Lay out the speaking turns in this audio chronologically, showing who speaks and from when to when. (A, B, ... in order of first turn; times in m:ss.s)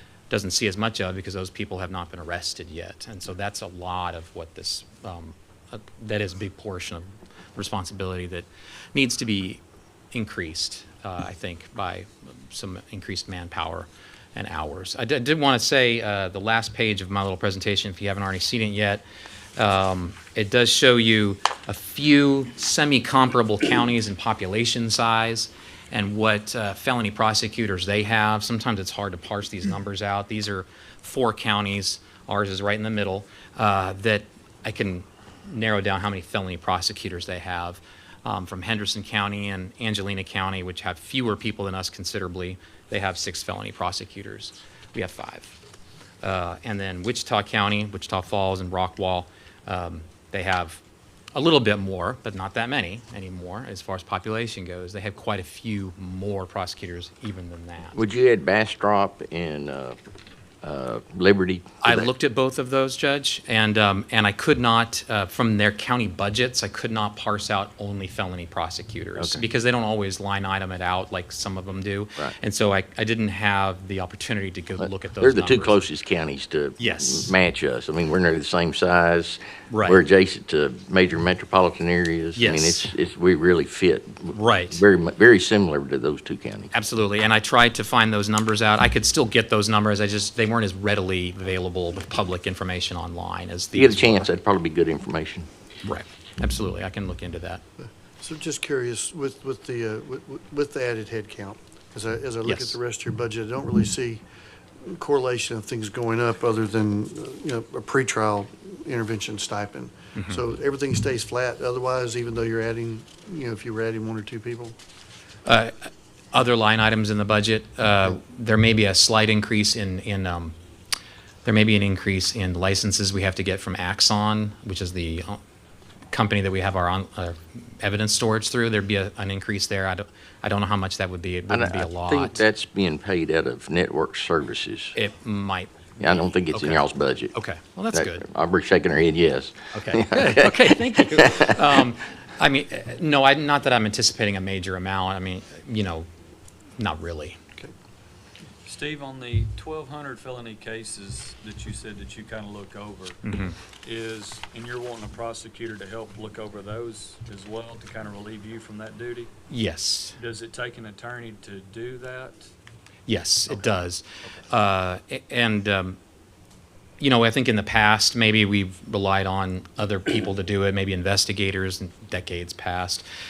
0:00.3-0:09.6 A
0:10.1-0:19.0 A
0:19.6-0:45.5 A
0:46.2-0:50.8 A
0:51.3-0:58.0 A
0:58.0-1:00.0 B
1:00.6-1:02.1 B
1:01.8-1:15.8 A
1:09.2-1:09.4 B
1:14.8-1:26.7 B
1:16.8-1:17.3 A
1:19.7-1:20.0 A
1:22.4-1:22.9 A
1:24.3-1:24.8 A
1:26.7-1:34.3 A
1:33.7-1:35.5 B
1:35.8-1:37.6 A
1:37.8-1:44.2 C
1:42.4-1:42.8 A
1:44.8-1:54.8 C
1:55.4-2:00.6 A
2:01.4-2:05.4 A
2:06.1-2:12.4 A
2:11.5-2:15.0 B
2:15.0-2:18.2 A
2:16.0-2:17.3 B
2:17.9-2:21.5 B
2:19.7-2:26.1 A
2:26.8-2:27.4 A
2:28.7-2:33.2 D
2:33.2-2:33.6 A
2:33.8-2:39.3 D
2:39.5-2:40.2 A
2:40.2-2:42.5 D
2:43.1-2:46.0 A
2:47.0-2:53.0 A